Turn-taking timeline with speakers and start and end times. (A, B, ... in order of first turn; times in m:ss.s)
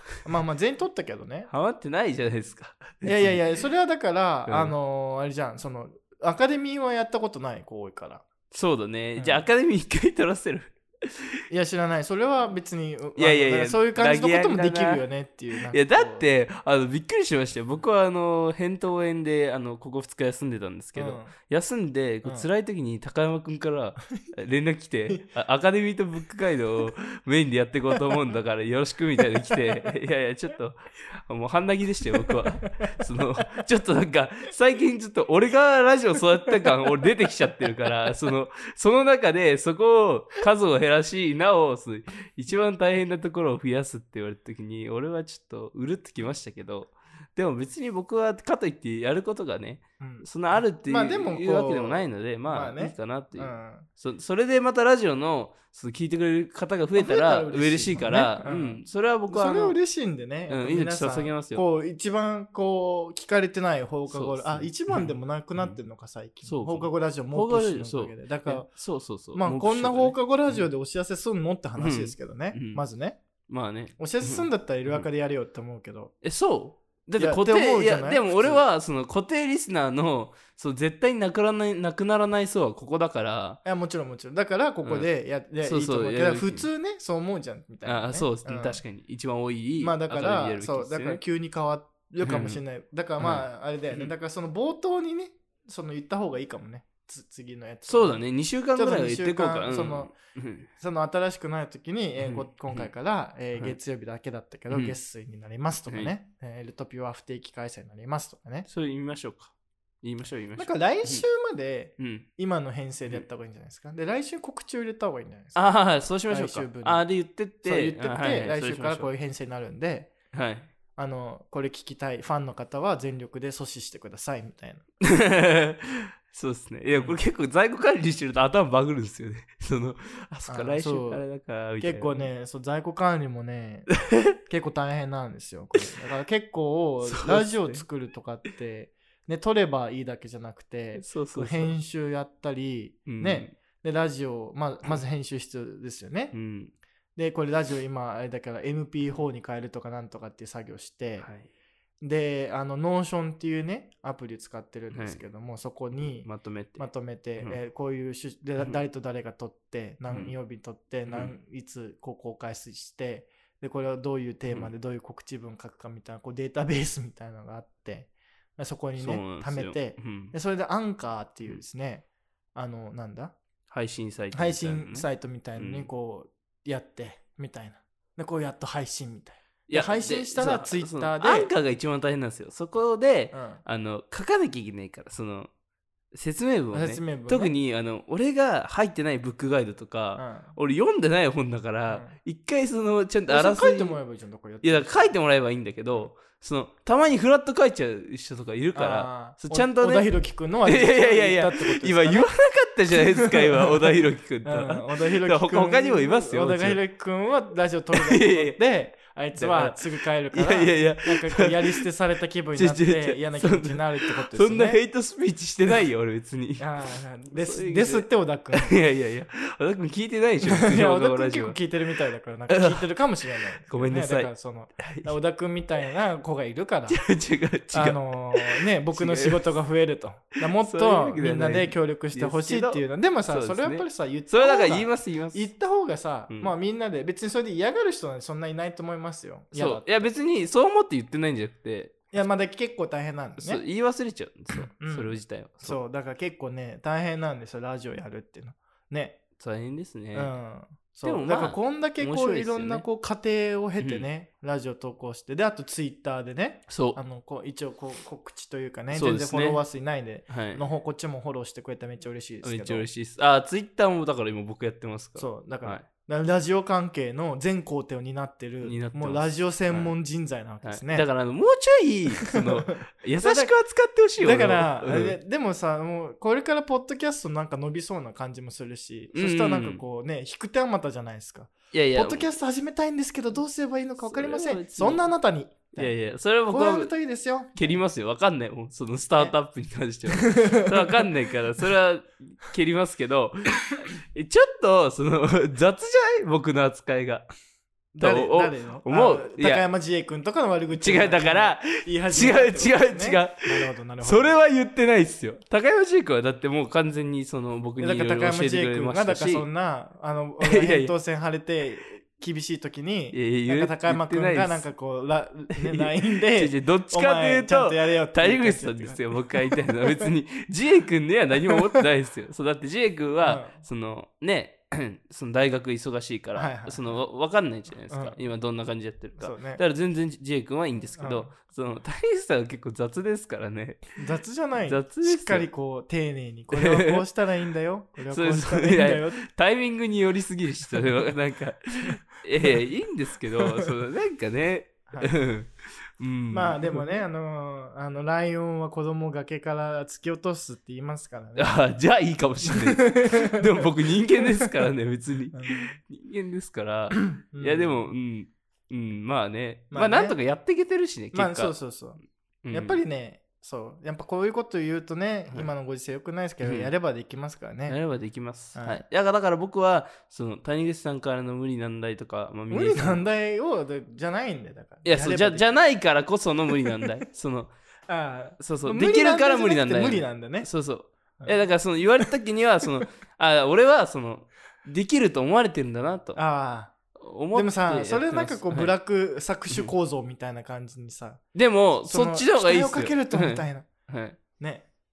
0:00.2-0:01.5 A
0:01.5-0:03.4 B
0:03.0-0:08.2 A
0:04.5-0:04.7 B
0:08.5-0:11.1 B
0:09.2-0:09.4 A
0:11.5-0:16.2 A
0:13.2-0:15.0 B
0:15.7-0:59.8 B
0:21.0-0:21.3 A
0:29.5-0:29.9 A
0:50.0-0:53.9 A
0:56.9-1:08.7 A
1:00.5-1:01.6 B
1:04.1-1:05.8 B
1:06.4-1:10.7 B
1:09.3-1:13.2 A
1:11.8-1:12.8 B
1:13.5-1:15.1 B
1:14.0-1:16.1 A
1:16.2-1:23.6 B
1:17.2-1:18.6 A
1:23.6-1:28.8 A
1:25.6-1:26.7 B
1:27.8-1:31.2 B
1:29.8-1:40.1 A
1:32.2-1:32.6 B
1:33.2-1:34.1 B
1:37.8-1:40.7 B
1:40.8-1:48.7 A
1:42.2-1:42.9 B
1:44.7-1:44.9 B
1:45.9-1:46.1 B
1:48.6-1:51.2 B
1:50.6-1:55.6 A
1:52.0-1:52.3 B
1:55.5-1:59.1 B
1:56.3-1:57.1 A
1:57.6-2:00.1 A
2:00.3-2:00.7 B
2:01.0-2:04.8 A
2:05.0-2:12.3 B
2:06.9-2:07.2 A
2:10.5-2:11.2 A
2:11.8-2:26.3 A
2:17.0-2:17.8 B
2:21.0-2:21.7 B
2:23.0-2:23.5 B
2:26.3-2:26.7 B
2:27.2-2:31.3 A
2:31.2-2:31.5 B
2:32.0-2:53.4 A
2:34.9-2:35.2 B
2:36.2-2:36.9 B
2:40.1-2:40.3 B
2:41.1-2:41.3 B
2:49.0-2:50.3 B
2:53.7-2:55.9 B
2:54.3-3:01.5 A
2:59.7-3:05.5 B
3:03.3-3:03.6 A
3:06.1-3:14.0 B
3:06.7-3:07.5 A
3:10.2-3:10.5 A
3:11.9-3:12.2 A
3:13.3-3:15.1 A
3:14.6-3:20.1 B
3:18.7-3:22.3 A
3:20.6-3:26.8 B
3:22.9-3:34.8 A
3:27.9-3:28.6 B
3:29.4-3:31.8 B
3:32.5-3:36.6 B
3:36.6-3:38.7 A
3:37.3-3:41.6 B
3:40.5-3:47.0 A
3:42.5-3:43.0 B
3:43.6-3:45.1 B
3:46.9-3:49.5 B
3:47.7-4:00.1 A
3:50.4-3:55.5 B
3:59.5-4:02.0 B
4:02.1-4:03.6 A
4:03.4-4:05.8 B
4:04.5-4:09.2 A
4:09.4-4:10.3 B
4:10.1-4:22.9 A
4:11.0-4:12.8 B
4:13.8-4:14.0 B
4:16.7-4:17.0 B
4:18.9-4:19.6 B
4:20.3-4:20.6 B
4:22.4-4:25.8 B
4:25.2-4:31.1 A
4:28.6-4:29.9 B
4:30.6-4:35.2 B
4:32.3-4:33.5 A
4:34.2-4:45.9 A
4:39.1-4:39.8 B
4:41.7-4:42.3 B
4:44.0-4:45.1 B
4:45.7-4:46.9 B
4:46.5-4:47.8 A
4:47.6-4:57.3 B
4:50.2-4:51.1 A
4:57.9-5:04.4 A
4:58.0-4:59.6 B
5:00.8-5:09.5 B
5:07.8-5:20.1 A
5:10.4-5:10.9 B
5:13.1-5:14.7 B
5:15.5-5:34.0 B
5:23.2-5:23.6 A
5:26.3-5:27.0 A
5:27.9-5:28.2 A
5:29.2-5:29.6 A
5:31.0-5:31.3 A
5:34.0-5:39.2 A
5:34.6-5:35.5 B
5:36.5-5:37.0 B
5:38.1-5:46.8 B
5:43.4-5:43.6 A
5:46.3-5:51.6 A
5:51.4-6:01.6 B
5:52.4-5:53.6 A
5:55.3-5:55.8 A
5:57.2-5:57.9 A
5:59.7-6:00.2 A
6:01.1-6:02.0 A
6:02.4-6:02.8 B
6:02.5-6:07.8 A
6:06.4-6:06.7 B
6:07.7-6:13.0 B
6:08.5-6:08.8 A
6:12.5-6:15.5 A
6:14.8-6:17.5 B
6:17.9-6:20.5 A
6:18.4-6:26.2 B
6:26.2-6:26.7 A
6:27.0-6:28.7 B
6:27.3-6:31.3 A
6:31.3-6:34.2 B
6:31.8-6:33.7 A
6:34.4-6:34.7 A